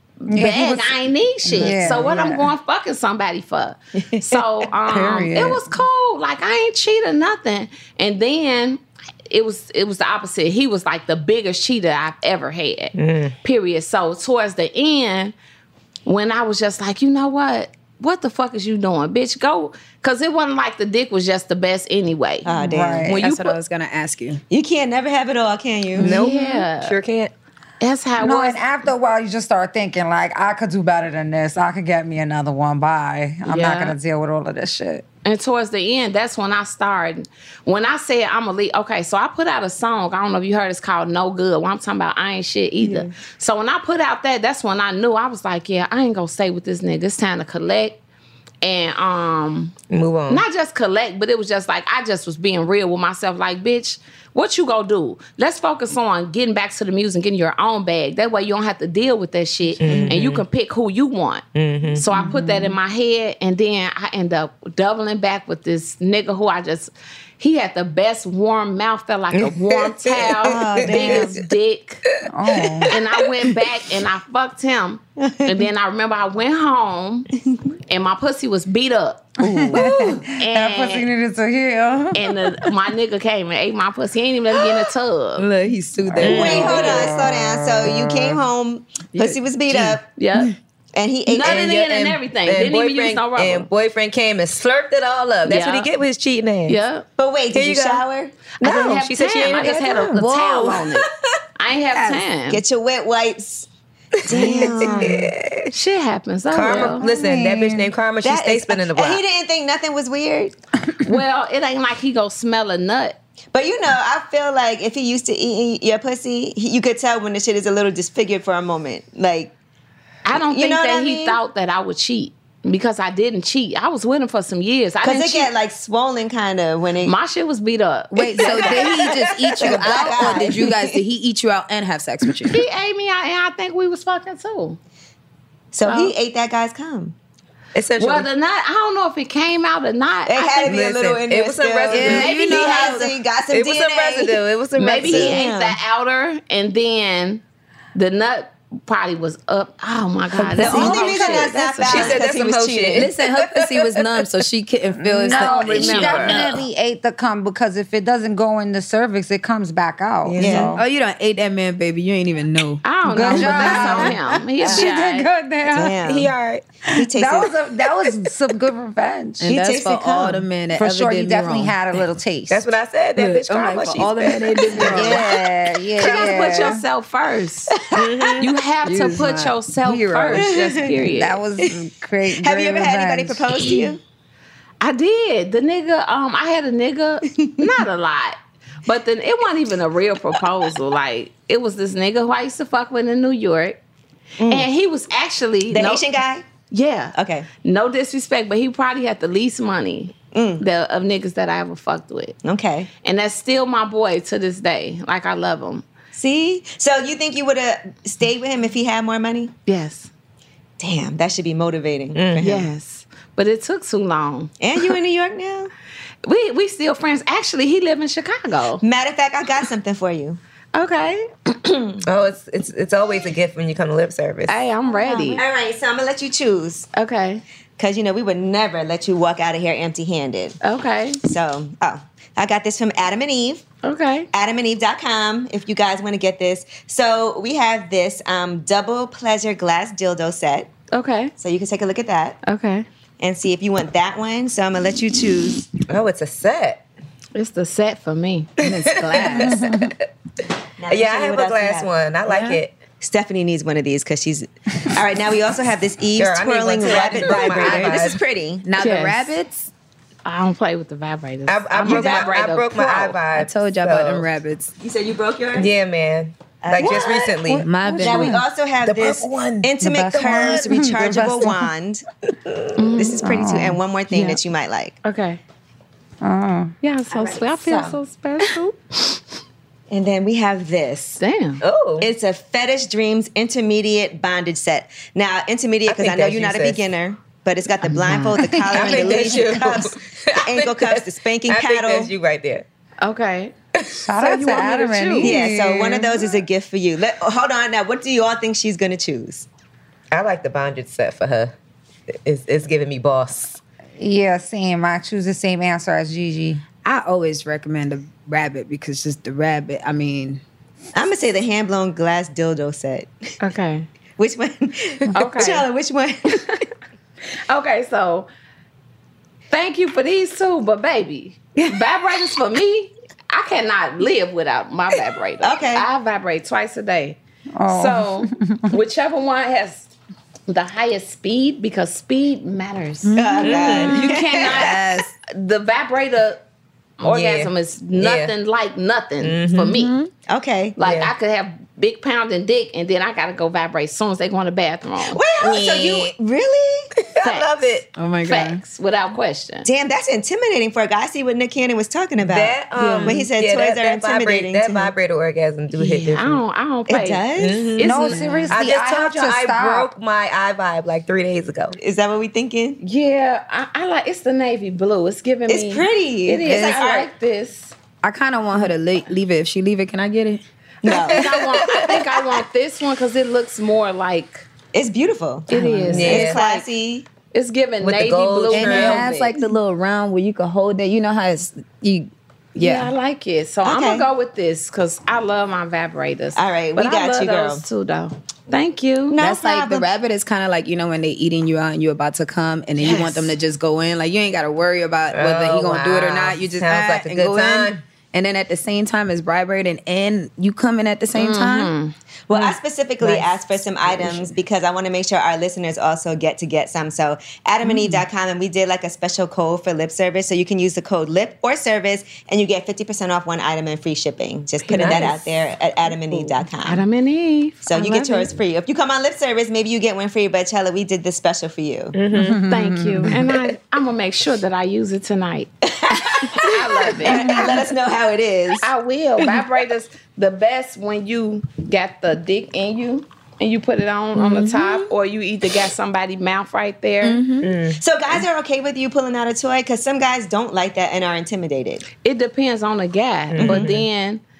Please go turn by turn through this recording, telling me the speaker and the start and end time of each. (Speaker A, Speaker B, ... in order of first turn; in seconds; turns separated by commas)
Speaker A: 0.2-15.3, Speaker B: 0.3-2.5, Speaker B: 4.9-5.7, Speaker C: 12.9-13.3, Speaker A: 16.0-23.6, Speaker D: 22.4-23.1, Speaker B: 22.6-23.2, Speaker E: 23.1-24.4, Speaker D: 24.5-26.2, Speaker C: 26.0-27.3, Speaker A: 26.0-27.0, Speaker A: 27.8-28.6, Speaker B: 28.2-35.0, Speaker A: 33.5-34.0, Speaker A: 35.2-48.0, Speaker D: 42.8-43.1, Speaker A: 48.6-49.7, Speaker C: 49.9-50.4, Speaker A: 50.3-72.0, Speaker C: 59.8-60.4, Speaker C: 61.5-62.0, Speaker B: 62.1-62.8, Speaker D: 70.4-71.3, Speaker C: 70.7-71.4, Speaker B: 72.3-73.0, Speaker A: 72.9-77.3, Speaker D: 75.2-75.7, Speaker A: 77.9-81.1, Speaker B: 79.4-82.7, Speaker D: 79.4-80.0, Speaker C: 79.7-80.2, Speaker A: 82.1-85.5, Speaker C: 85.4-87.1, Speaker E: 85.4-87.0, Speaker B: 86.1-88.4, Speaker D: 86.2-90.0, Speaker E: 89.1-90.5, Speaker A: 90.2-90.5, Speaker D: 90.9-91.7, Speaker A: 91.3-93.7, Speaker C: 91.4-96.8, Speaker A: 95.4-95.9, Speaker A: 96.7-97.0, Speaker D: 97.2-99.8, Speaker C: 97.5-98.0, Speaker A: 98.6-101.0, Speaker C: 98.6-101.0, Speaker E: 100.1-100.8, Speaker A: 101.6-102.6, Speaker E: 101.9-102.2, Speaker D: 102.5-103.7, Speaker C: 104.2-105.7, Speaker D: 104.2-105.2, Speaker A: 104.3-104.8, Speaker A: 105.7-107.0, Speaker C: 106.5-109.2, Speaker B: 107.0-107.9, Speaker D: 108.2-110.5, Speaker A: 111.0-113.2, Speaker D: 113.5-119.5, Speaker A: 120.2-125.5, Speaker D: 120.3-121.4, Speaker D: 125.0-127.1, Speaker A: 127.0-129.2, Speaker E: 128.1-132.6, Speaker D: 128.4-131.0, Speaker A: 132.5-134.8, Speaker D: 135.7-137.1, Speaker A: 135.8-136.1, Speaker C: 137.7-138.3, Speaker A: 138.0-140.8, Speaker D: 140.3-144.4, Speaker C: 140.6-142.8, Speaker E: 141.9-143.1, Speaker A: 142.1-143.1, Speaker C: 143.5-145.4, Speaker A: 144.8-147.4, Speaker D: 145.0-145.8, Speaker A: 147.9-152.2, Speaker C: 150.4-154.3, Speaker E: 150.5-151.0, Speaker D: 150.6-153.1, Speaker E: 152.9-156.6, Speaker B: 155.0-160.8, Speaker A: 155.3-156.4, Speaker C: 160.2-160.7, Speaker D: 160.4-160.7, Speaker E: 160.7-164.1, Speaker A: 162.8-165.3, Speaker B: 163.0-166.0, Speaker D: 165.7-166.3, Speaker C: 166.0-166.6, Speaker B: 166.9-169.6, Speaker D: 166.9-167.9, Speaker E: 169.4-171.7, Speaker D: 169.5-170.4, Speaker B: 170.7-172.6, Speaker C: 172.5-175.2, Speaker E: 173.1-175.2, Speaker D: 174.8-175.5, Speaker B: 174.8-176.8, Speaker A: 175.9-177.7, Speaker D: 176.0-176.4, Speaker D: 177.8-178.4, Speaker C: 177.9-178.5, Speaker A: 178.4-181.4, Speaker E: 178.8-180.5, Speaker D: 180.3-181.0, Speaker B: 181.0-183.5, Speaker D: 181.6-184.0, Speaker A: 184.8-193.8, Speaker D: 194.4-194.7, Speaker A: 194.4-196.0, Speaker D: 195.7-196.4, Speaker A: 196.7-202.3, Speaker D: 197.1-197.5, Speaker D: 200.3-200.6, Speaker D: 202.4-202.9, Speaker A: 203.0-205.8, Speaker D: 206.1-209.5, Speaker A: 209.7-210.1, Speaker D: 210.8-212.7, Speaker C: 212.1-212.4, Speaker A: 212.4-214.5, Speaker D: 214.6-215.7, Speaker A: 216.2-218.8, Speaker D: 218.8-220.4, Speaker A: 220.7-221.3, Speaker C: 222.0-224.6, Speaker A: 224.5-225.4, Speaker D: 224.9-226.9, Speaker A: 226.9-227.4, Speaker D: 227.8-230.6, Speaker A: 230.6-231.2, Speaker D: 231.2-233.6, Speaker A: 233.8-234.3, Speaker D: 234.3-240.7, Speaker A: 240.9-241.3, Speaker D: 241.4-242.4, Speaker A: 242.4-242.8, Speaker D: 243.2-245.7, Speaker C: 245.9-246.8, Speaker A: 247.3-248.5, Speaker E: 248.6-249.6, Speaker C: 248.6-249.9, Speaker B: 249.3-249.9, Speaker D: 250.8-251.9, Speaker C: 250.9-252.8, Speaker E: 252.3-252.6, Speaker D: 253.0-258.7, Speaker C: 256.2-258.2, Speaker E: 257.3-259.7, Speaker A: 258.8-259.3, Speaker A: 260.2-263.2, Speaker C: 261.5-264.3, Speaker D: 261.8-262.3, Speaker E: 263.3-264.7, Speaker D: 264.8-265.7, Speaker C: 265.5-268.1, Speaker D: 266.6-272.0, Speaker E: 267.4-268.4, Speaker C: 268.8-270.6, Speaker E: 269.9-270.5, Speaker B: 269.9-271.7, Speaker A: 272.8-273.3, Speaker D: 272.9-274.9, Speaker B: 273.2-273.8, Speaker A: 274.1-274.4, Speaker A: 275.0-275.4, Speaker B: 276.2-276.7, Speaker A: 276.8-279.1, Speaker D: 277.2-277.9, Speaker D: 279.9-281.2, Speaker A: 281.2-281.6, Speaker C: 281.6-282.1, Speaker D: 282.0-292.1, Speaker C: 285.9-286.8, Speaker A: 287.8-288.6, Speaker B: 288.4-289.1, Speaker C: 288.7-292.6, Speaker A: 293.0-293.5, Speaker B: 293.9-296.2, Speaker A: 294.2-295.4, Speaker D: 295.2-299.5, Speaker C: 300.1-301.5, Speaker C: 302.2-303.6, Speaker B: 304.0-306.6, Speaker E: 306.8-310.4, Speaker D: 310.9-313.3, Speaker A: 313.4-313.9, Speaker D: 314.2-316.6, Speaker A: 315.1-315.6, Speaker A: 317.5-318.3, Speaker A: 319.5-329.9, Speaker D: 325.4-325.9, Speaker B: 327.6-328.7, Speaker A: 330.5-333.1, Speaker E: 333.0-333.9, Speaker D: 333.1-334.8, Speaker C: 333.4-334.0, Speaker A: 333.7-336.4, Speaker E: 334.4-335.1, Speaker A: 337.0-339.9, Speaker C: 337.0-338.3, Speaker C: 339.2-339.8, Speaker E: 339.4-340.1, Speaker D: 340.3-340.8, Speaker A: 340.8-345.2, Speaker C: 340.8-341.1, Speaker D: 345.1-346.9, Speaker C: 345.4-346.1, Speaker C: 346.9-347.9, Speaker A: 347.2-347.5, Speaker E: 347.9-348.6, Speaker A: 348.2-349.7, Speaker D: 349.6-354.9, Speaker C: 352.2-356.4, Speaker E: 352.8-353.2, Speaker A: 355.8-357.2, Speaker D: 356.9-357.7, Speaker C: 357.4-361.8, Speaker A: 357.7-358.5, Speaker B: 357.8-359.9, Speaker E: 358.1-358.5, Speaker D: 361.8-362.8, Speaker A: 362.8-367.7, Speaker D: 365.5-367.1, Speaker E: 366.4-366.8, Speaker E: 368.0-370.4, Speaker D: 370.8-371.3, Speaker A: 371.1-374.4, Speaker D: 374.7-375.5, Speaker A: 375.5-376.6, Speaker E: 375.5-376.2, Speaker C: 375.9-376.5, Speaker D: 376.0-377.1, Speaker A: 377.3-379.4, Speaker C: 377.8-379.1, Speaker E: 378.5-382.9, Speaker A: 382.6-389.2, Speaker D: 383.6-384.1, Speaker D: 386.4-387.6, Speaker D: 389.1-389.9, Speaker E: 389.2-401.7, Speaker A: 392.8-393.3, Speaker C: 395.1-397.8, Speaker A: 401.1-401.9, Speaker D: 402.3-416.8, Speaker C: 403.0-403.4, Speaker E: 403.9-404.3, Speaker E: 407.6-408.0, Speaker A: 414.6-415.3, Speaker C: 414.7-415.1, Speaker A: 416.1-418.4, Speaker D: 417.6-421.9, Speaker C: 421.9-422.4, Speaker B: 422.2-423.2, Speaker A: 422.4-425.5, Speaker C: 423.3-423.6, Speaker D: 425.7-428.7, Speaker A: 426.4-427.4, Speaker A: 428.6-437.2, Speaker E: 434.1-434.5, Speaker D: 434.4-434.9, Speaker E: 437.0-437.5, Speaker C: 437.4-437.8, Speaker D: 437.8-441.8, Speaker A: 442.0-444.2, Speaker C: 443.3-443.8, Speaker D: 443.4-443.7